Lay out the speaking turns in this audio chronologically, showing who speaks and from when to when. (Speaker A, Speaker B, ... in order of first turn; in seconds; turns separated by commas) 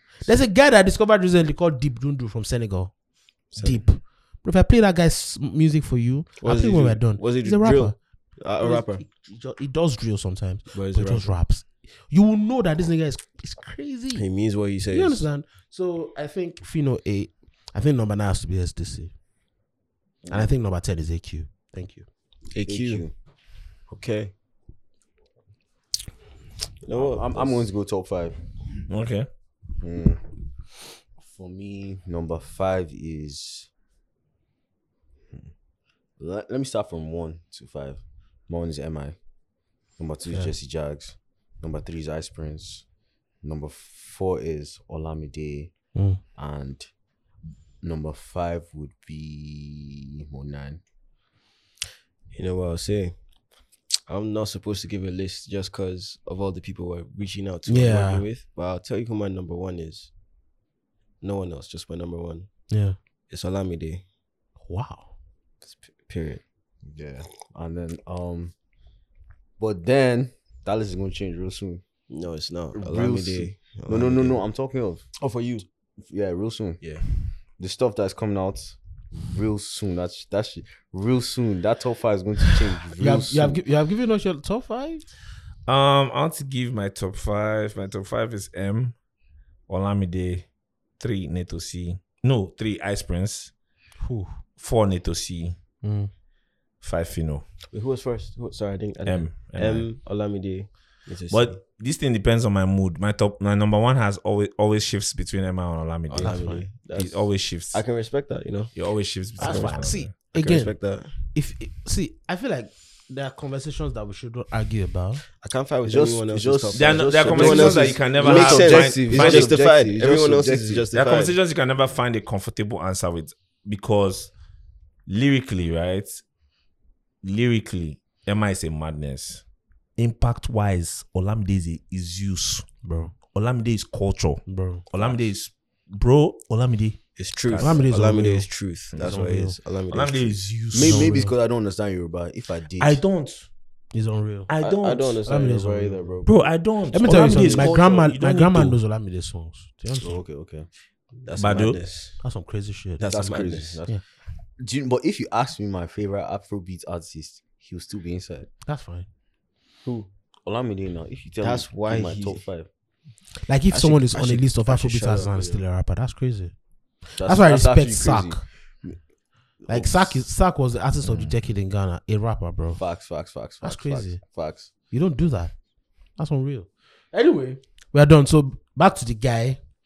Speaker A: 0.2-14.3, Speaker B: 3.5-3.8, Speaker B: 6.4-9.0, Speaker B: 10.7-11.4, Speaker B: 14.1-15.3, Speaker A: 14.9-19.1, Speaker C: 20.2-20.5, Speaker A: 20.3-22.1, Speaker B: 22.5-23.1, Speaker C: 22.7-23.1, Speaker B: 23.9-24.3, Speaker B: 26.8-27.7, Speaker C: 26.9-28.4, Speaker D: 28.9-29.3, Speaker C: 29.8-30.3, Speaker C: 31.2-33.7, Speaker C: 36.2-39.2, Speaker C: 40.0-42.9, Speaker A: 40.3-40.5, Speaker C: 43.4-45.7, Speaker A: 46.0-46.2, Speaker C: 46.4-46.9, Speaker C: 47.8-50.8, Speaker B: 52.3-53.2, Speaker B: 54.1-60.1, Speaker A: 57.7-58.3, Speaker B: 61.2-62.5, Speaker A: 62.7-63.0, Speaker B: 63.3-64.0, Speaker A: 64.7-65.1, Speaker B: 65.6-66.4, Speaker C: 66.9-68.5, Speaker C: 69.6-71.8, Speaker B: 72.1-74.4, Speaker C: 72.7-75.1, Speaker B: 75.2-75.7, Speaker C: 76.0-83.6, Speaker B: 76.8-77.1, Speaker A: 83.0-85.1, Speaker D: 85.7-89.0, Speaker D: 89.7-90.5, Speaker D: 91.0-93.5, Speaker A: 94.0-94.4, Speaker D: 94.6-95.6, Speaker A: 95.8-96.1, Speaker D: 96.8-97.4, Speaker B: 97.7-101.6, Speaker D: 99.0-99.9, Speaker D: 101.3-107.8, Speaker B: 106.1-108.8, Speaker A: 106.2-106.7, Speaker D: 108.7-110.1, Speaker B: 109.4-111.1, Speaker A: 109.4-115.2, Speaker B: 115.4-121.3, Speaker C: 115.8-120.9, Speaker D: 116.7-119.6, Speaker D: 120.9-124.3, Speaker D: 125.1-126.2, Speaker D: 127.2-129.4, Speaker D: 130.0-132.7, Speaker A: 132.8-133.1, Speaker D: 133.3-137.8, Speaker A: 134.5-134.9, Speaker B: 137.2-140.4, Speaker A: 137.6-139.6, Speaker D: 139.9-141.1, Speaker C: 140.7-143.0, Speaker A: 140.8-141.3, Speaker D: 142.8-143.5, Speaker A: 143.9-144.5, Speaker D: 144.5-145.2, Speaker B: 144.6-146.5, Speaker A: 145.3-146.1, Speaker D: 146.2-148.8, Speaker A: 146.9-150.2, Speaker B: 147.1-147.8, Speaker C: 149.9-150.7, Speaker B: 151.2-152.2, Speaker D: 151.4-151.8, Speaker A: 152.2-153.1, Speaker B: 153.0-153.8, Speaker C: 153.0-153.9, Speaker C: 154.6-158.5, Speaker A: 158.6-159.1, Speaker C: 159.8-162.7, Speaker B: 161.4-162.4, Speaker A: 163.4-168.4, Speaker B: 163.7-165.6, Speaker C: 167.2-169.0, Speaker C: 169.6-170.2, Speaker A: 169.7-172.8, Speaker C: 171.0-171.3, Speaker C: 172.8-174.7, Speaker A: 173.6-174.2, Speaker A: 174.8-175.5, Speaker A: 176.2-179.6